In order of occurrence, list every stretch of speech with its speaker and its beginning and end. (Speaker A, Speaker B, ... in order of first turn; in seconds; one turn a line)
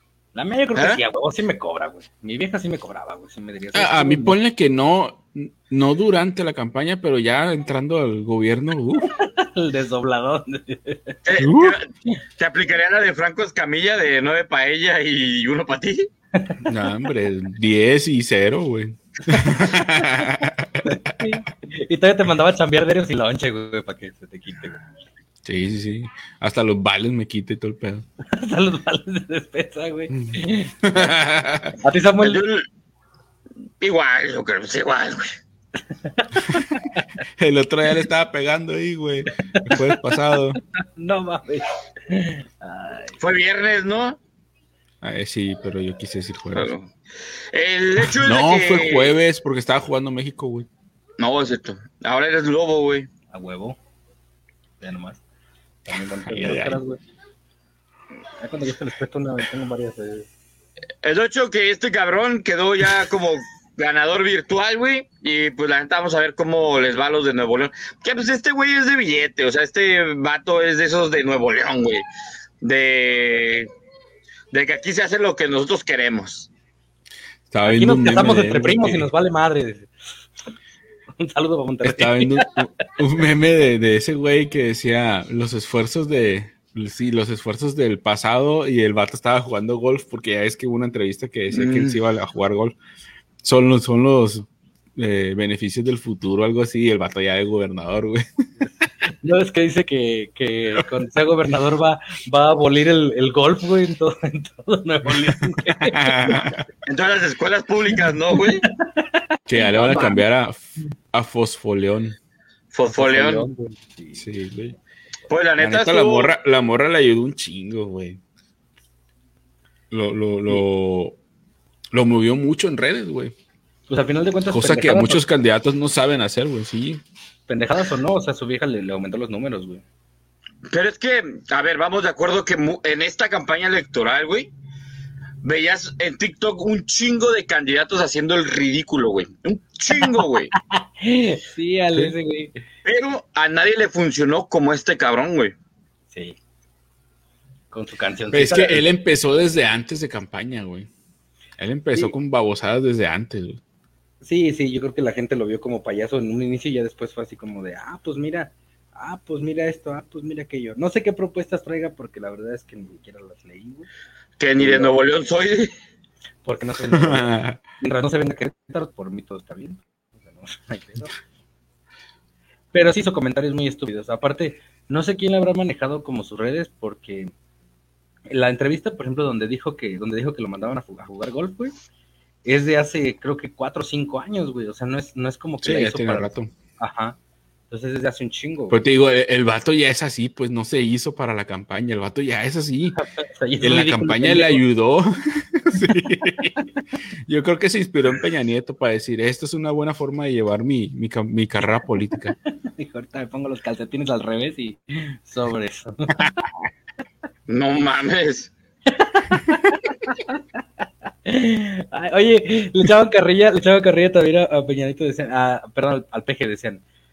Speaker A: 0.3-4.4
Speaker B: 0.8-1.0
Speaker C: 3.7-9.1
Speaker A: 9.2-11.2
Speaker B: 11.2-11.9
Speaker C: 11.4-11.8
Speaker B: 12.4-16.1
Speaker A: 16.4-16.7
Speaker C: 16.6-21.2
Speaker A: 19.3-24.8
Speaker C: 25.4-28.1
Speaker A: 28.3-31.1
Speaker C: 30.1-31.8
Speaker A: 31.8-32.4
Speaker B: 32.2-32.6
Speaker B: 33.8-35.3
Speaker A: 35.9-37.1
Speaker C: 37.4-40.6
Speaker A: 39.5-43.2
Speaker B: 43.2-44.2
Speaker C: 45.0-46.7
Speaker B: 46.5-46.9
Speaker B: 47.5-49.1
Speaker C: 48.0-50.7
Speaker B: 51.2-53.1
Speaker A: 53.3-53.8
Speaker A: 54.8-55.2
Speaker A: 55.9-57.0
Speaker C: 56.3-56.8
Speaker A: 58.4-60.3
Speaker B: 61.0-72.0
Speaker B: 72.6-73.7
Speaker B: 74.5-76.5
Speaker C: 77.5-79.1
Speaker A: 77.7-79.9
Speaker A: 81.2-82.6
Speaker C: 81.8-92.8
Speaker B: 91.5-92.0
Speaker C: 93.4-98.2
Speaker A: 99.2-106.6
Speaker C: 105.7-106.6
Speaker B: 106.9-108.7
Speaker A: 108.6-110.2
Speaker C: 109.5-112.2
Speaker B: 109.7-110.2
Speaker B: 112.7-113.5
Speaker A: 112.9-114.3
Speaker C: 114.2-114.8
Speaker B: 115.3-116.3
Speaker C: 115.6-118.2
Speaker C: 119.9-121.2
Speaker C: 121.9-123.3
Speaker A: 123.9-125.2
Speaker C: 124.5-127.0
Speaker A: 127.5-129.8
Speaker B: 130.7-134.5
Speaker B: 135.4-140.5
Speaker A: 139.9-142.6
Speaker B: 142.8-145.5
Speaker A: 146.1-146.4
Speaker A: 147.7-148.8
Speaker C: 148.3-150.9
Speaker C: 151.6-153.6
Speaker A: 154.2-163.9
Speaker B: 164.4-165.7
Speaker A: 164.6-164.9
Speaker A: 166.4-171.1
Speaker C: 166.9-167.6
Speaker A: 172.7-177.3
Speaker A: 178.3-181.7
Speaker A: 182.4-187.2
Speaker C: 185.6-186.5
Speaker A: 187.7-188.8
Speaker C: 188.7-193.0
Speaker A: 193.0-194.6
Speaker C: 193.6-196.6
Speaker C: 197.3-202.3
Speaker A: 202.5-206.3
Speaker B: 207.5-208.5
Speaker A: 208.9-210.4
Speaker A: 211.3-216.8